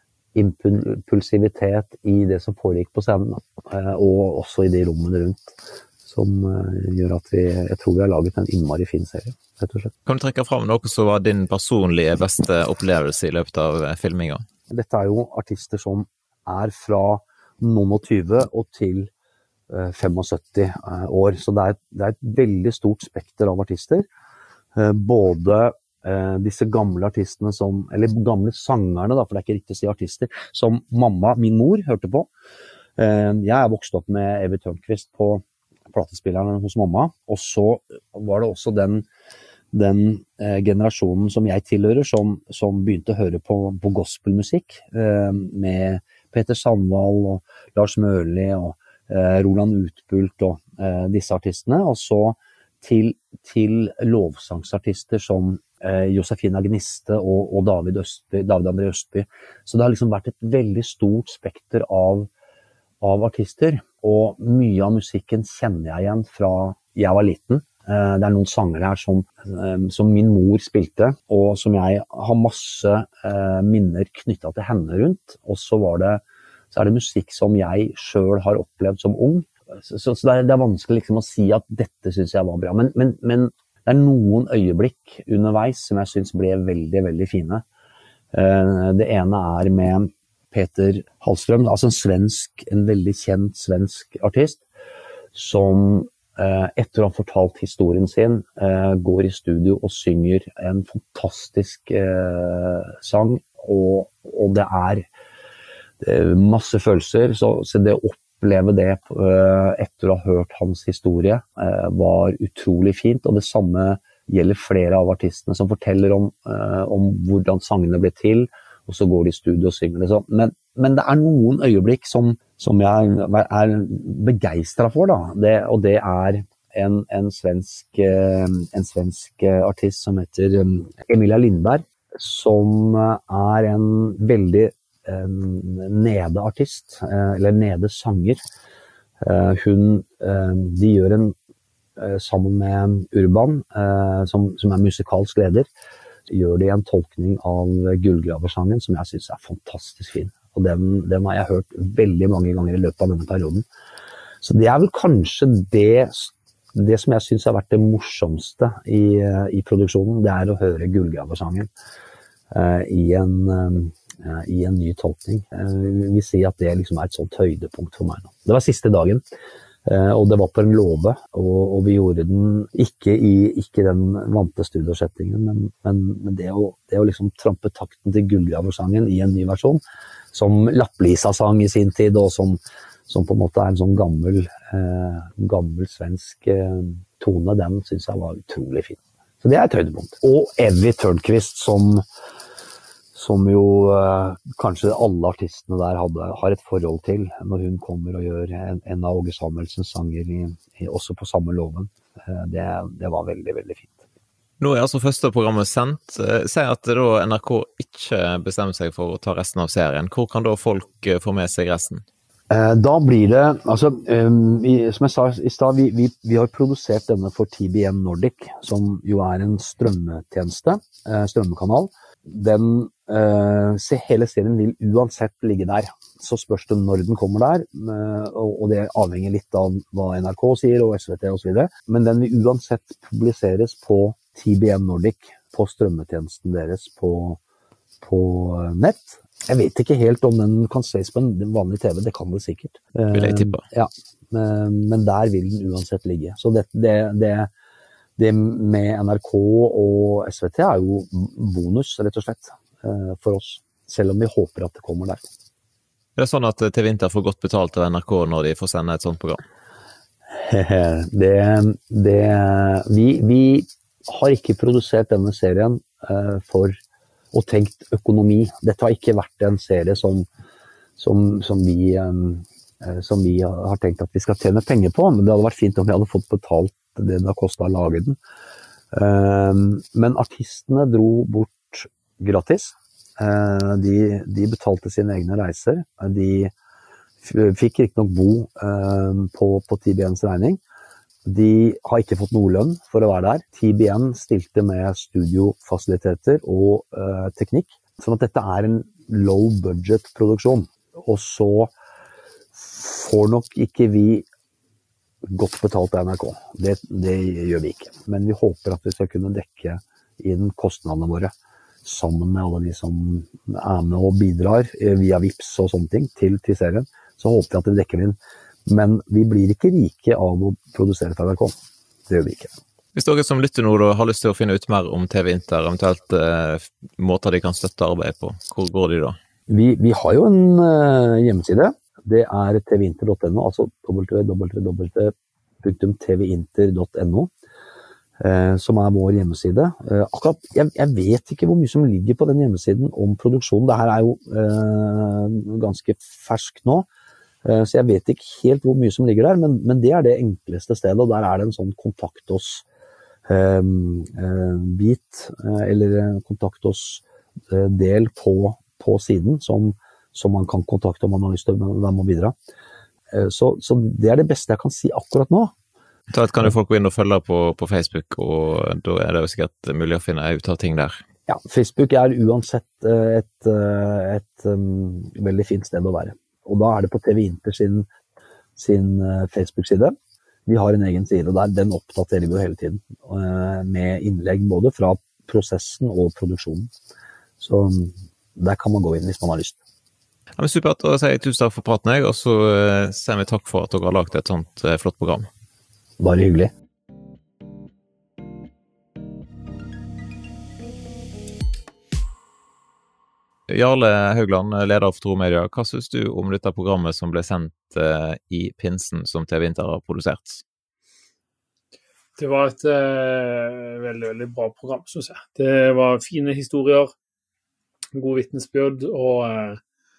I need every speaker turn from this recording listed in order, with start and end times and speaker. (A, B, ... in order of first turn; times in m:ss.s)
0:00.3-0:09.9 A
0:10.0-0:14.4 B
0:14.7-0:19.1 A
0:19.7-0:24.0 A
0:24.7-0:32.3 A
0:33.0-0:39.0 A
0:39.7-1:02.3 A
1:03.0-1:27.6 A
1:28.3-1:34.6 A
1:35.3-1:45.1 A
1:46.0-2:18.4 A
2:19.2-2:21.3 A
2:22.0-2:25.7 A
2:26.3-2:33.6 A
2:34.4-2:41.7 A
2:42.5-2:49.2 A
2:49.8-2:59.8 A
3:00.3-3:12.0 A
3:13.1-3:24.0 A
3:24.6-3:32.0 B
3:32.5-3:57.4 A
3:58.0-4:07.5 A
4:03.1-4:03.6 B
4:08.2-4:15.3 A
4:16.2-4:19.4 B
4:20.3-4:26.8 A
4:27.3-4:30.2 A
4:31.0-4:38.2 A
4:38.9-4:46.5 A
4:47.2-4:50.6 A
4:51.2-5:01.7 A
5:02.5-5:04.2 A
5:05.2-5:11.3 A
5:11.8-5:21.5 A
5:22.1-5:22.5 A
5:22.9-5:29.2 B
5:29.5-5:37.3 A
5:38.2-5:46.9 A
5:47.4-5:52.6 A
5:53.3-6:02.3 A
6:03.1-6:05.5 A
6:06.1-6:11.0 B
6:11.3-6:17.9 A
6:18.6-6:19.9 A
6:20.4-6:26.7 A
6:27.4-6:29.6 A
6:30.4-6:35.3 B
6:36.0-6:36.5 A
6:43.5-6:50.4 B
6:52.2-6:56.9 C
6:57.9-6:59.6 C